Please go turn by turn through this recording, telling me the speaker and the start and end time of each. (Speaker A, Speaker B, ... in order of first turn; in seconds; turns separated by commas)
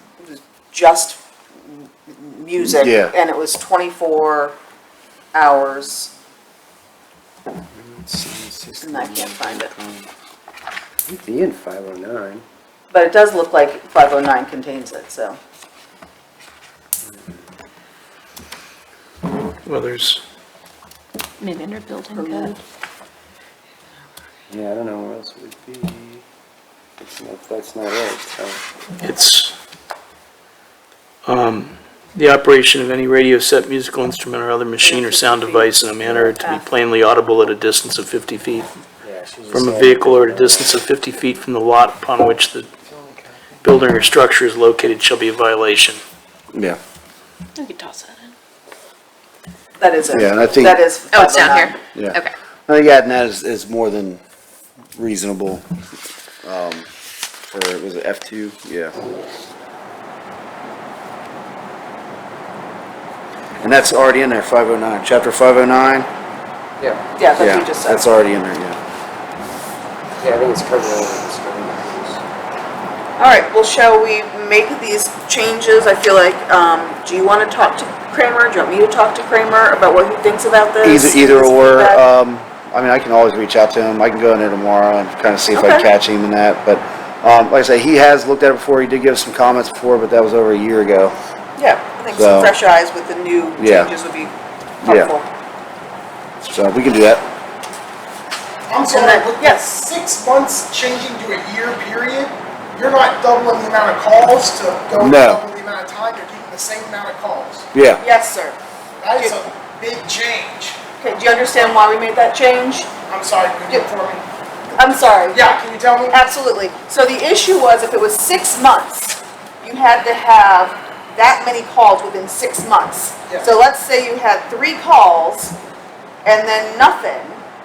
Speaker A: 0.2-4.6, Speaker B: 2.6-3.1, Speaker A: 5.3-6.1, Speaker C: 7.7-10.1, Speaker A: 8.8-9.7, Speaker C: 11.1-12.4, Speaker A: 12.9-15.4, Speaker C: 17.0-17.5, Speaker D: 19.7-20.2, Speaker E: 21.4-22.6, Speaker A: 22.1-22.6, Speaker C: 24.5-26.2, Speaker C: 27.0-28.6, Speaker D: 29.0-29.6, Speaker D: 31.2-38.7, Speaker A: 34.8-36.6, Speaker C: 39.0-40.9, Speaker D: 39.5-42.7, Speaker C: 42.9-43.7, Speaker D: 43.6-46.0, Speaker B: 46.5-46.8, Speaker E: 47.6-48.3, Speaker A: 49.8-51.8, Speaker B: 50.1-50.8, Speaker E: 51.1-52.3, Speaker B: 52.0-54.2, Speaker B: 55.0-55.6, Speaker B: 56.4-56.9, Speaker B: 57.5-59.0, Speaker B: 63.6-66.1, Speaker A: 67.2-68.0, Speaker B: 67.4-68.8, Speaker C: 70.2-72.2, Speaker A: 73.2-82.0, Speaker B: 80.8-91.2, Speaker A: 85.5-85.9, Speaker A: 91.6-95.3, Speaker B: 92.1-92.5, Speaker B: 93.6-93.9, Speaker B: 94.8-95.1, Speaker B: 96.5-97.2, Speaker F: 98.7-107.7, Speaker A: 98.9-99.7, Speaker B: 105.0-105.4, Speaker B: 107.7-108.0, Speaker A: 108.0-108.6, Speaker F: 109.0-110.8, Speaker A: 111.0-112.9, Speaker F: 113.1-114.2, Speaker A: 114.8-115.6, Speaker F: 115.3-116.2, Speaker A: 116.1-125.6, Speaker A: 126.2-127.4